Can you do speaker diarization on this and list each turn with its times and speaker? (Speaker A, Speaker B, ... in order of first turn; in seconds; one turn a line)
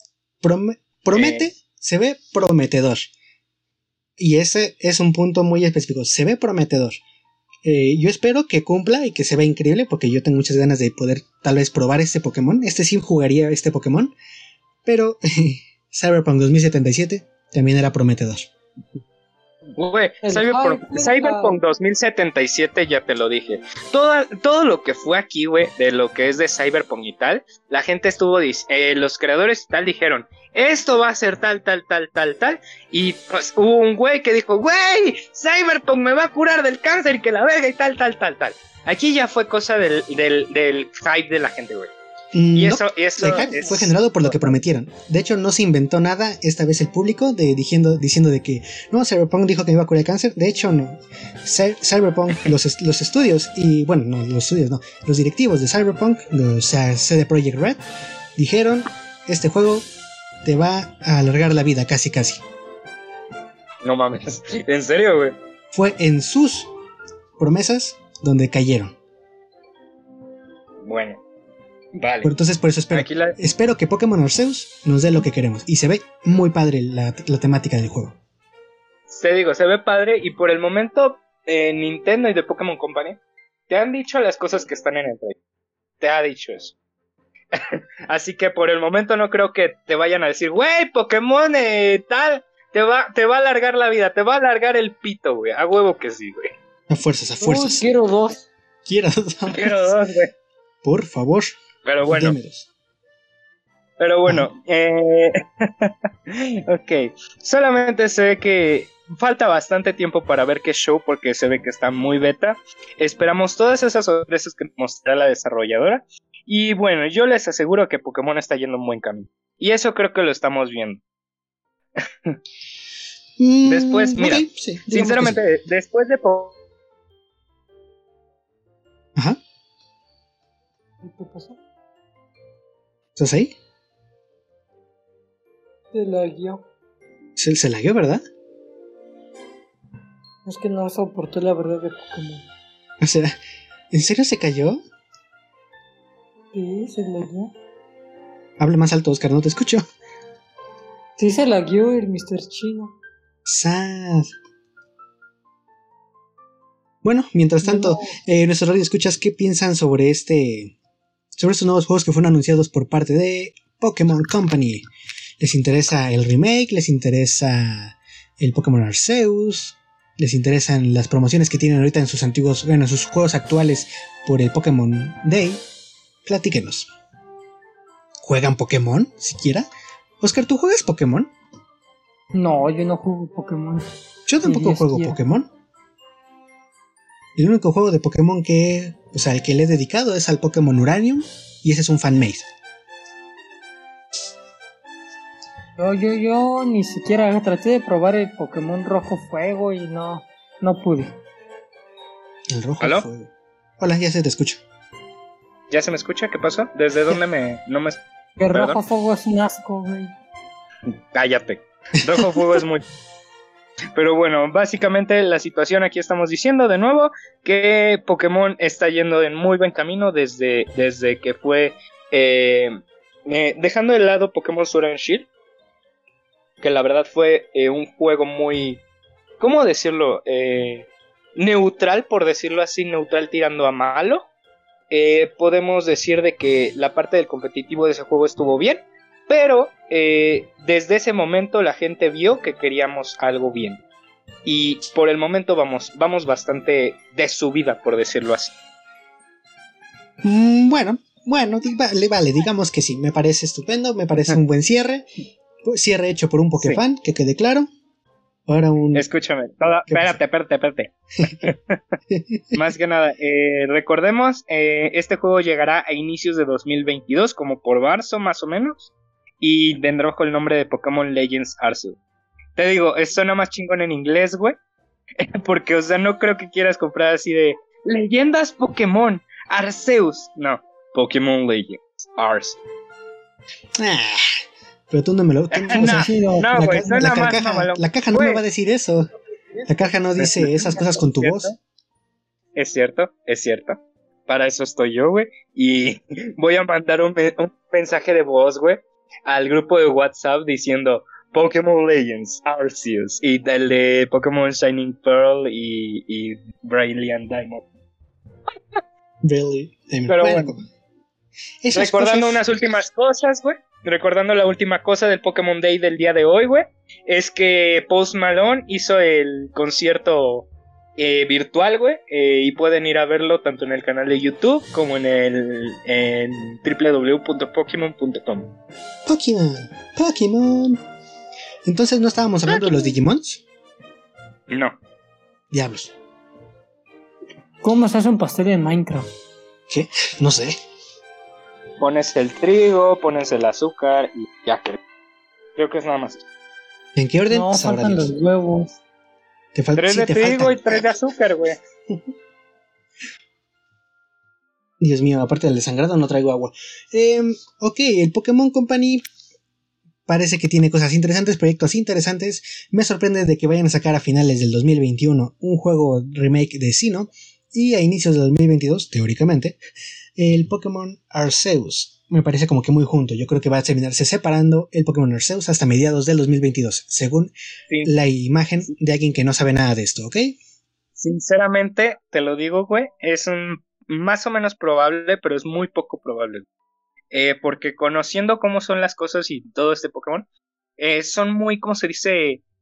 Speaker A: 0.4-3.1
Speaker B: 1.1-1.5
Speaker A: 4.2-7.0
Speaker A: 7.6-14.1
Speaker A: 14.8-18.5
Speaker B: 19.8-41.9
Speaker C: 20.2-21.6
Speaker A: 42.3-57.8
Speaker B: 42.5-44.5
Speaker A: 58.4-59.8
Speaker A: 60.4-62.4
Speaker B: 63.8-65.3
Speaker A: 65.7-66.7
Speaker A: 67.4-69.0
Speaker B: 70.8-71.2
Speaker B: 72.0-72.3
Speaker A: 72.2-78.2
Speaker B: 72.9-73.4
Speaker B: 79.1-85.3
Speaker B: 86.0-86.7
Speaker B: 87.5-96.5
Speaker A: 96.9-97.8
Speaker C: 97.4-98.5
Speaker A: 98.8-99.9
Speaker B: 99.5-100.3
Speaker A: 100.8-102.7
Speaker B: 101.8-102.3
Speaker B: 104.0-121.0
Speaker A: 123.4-125.4
Speaker B: 123.7-126.5
Speaker C: 131.0-131.6
Speaker A: 133.2-133.5
Speaker C: 135.9-136.6
Speaker A: 137.4-138.2
Speaker C: 140.4-142.5
Speaker A: 143.0-143.3
Speaker A: 143.9-144.8
Speaker C: 146.5-147.5
Speaker A: 148.6-149.8
Speaker C: 151.2-152.9
Speaker A: 153.4-154.3
Speaker A: 157.0-160.7
Speaker C: 157.6-158.2
Speaker A: 161.3-164.8
Speaker A: 165.4-175.6
Speaker A: 176.2-176.9
Speaker A: 178.2-179.7
Speaker A: 180.2-181.3
Speaker C: 182.3-183.9
Speaker A: 184.3-185.5
Speaker C: 184.4-185.2
Speaker A: 187.3-192.5
Speaker C: 195.8-201.1
Speaker A: 202.5-204.6
Speaker B: 202.8-203.1
Speaker B: 205.7-208.8
Speaker C: 208.4-210.1
Speaker B: 211.1-212.8
Speaker B: 213.9-222.7
Speaker B: 223.2-225.3
Speaker B: 226.6-228.8
Speaker B: 229.4-234.2
Speaker B: 234.9-243.8
Speaker B: 244.4-248.5
Speaker A: 250.2-255.1
Speaker A: 255.6-257.7
Speaker A: 258.5-259.1
Speaker B: 258.9-261.8
Speaker A: 259.9-260.2
Speaker A: 262.1-262.6
Speaker B: 262.5-272.0
Speaker B: 272.6-274.6
Speaker B: 275.2-282.6
Speaker A: 283.8-284.4
Speaker A: 284.9-289.1
Speaker B: 285.5-288.4
Speaker C: 285.7-286.9
Speaker A: 289.6-291.5
Speaker B: 290.2-291.6
Speaker B: 292.6-307.6
Speaker A: 309.2-310.6
Speaker B: 310.1-310.5
Speaker A: 311.6-312.5
Speaker B: 311.7-328.5
Speaker A: 329.1-330.8
Speaker A: 331.6-333.4
Speaker B: 332.5-332.7
Speaker B: 334.5-334.8
Speaker A: 335.5-335.9
Speaker C: 337.6-339.1
Speaker A: 339.7-340.6
Speaker B: 341.8-344.8
Speaker B: 345.6-346.2
Speaker A: 346.9-348.1
Speaker C: 347.3-348.8
Speaker A: 349.5-350.9
Speaker B: 349.8-351.6
Speaker A: 354.8-359.0
Speaker A: 360.1-369.6
Speaker A: 370.1-377.3
Speaker A: 377.8-380.4
Speaker B: 381.0-386.4
Speaker B: 387.1-390.2
Speaker B: 390.8-392.4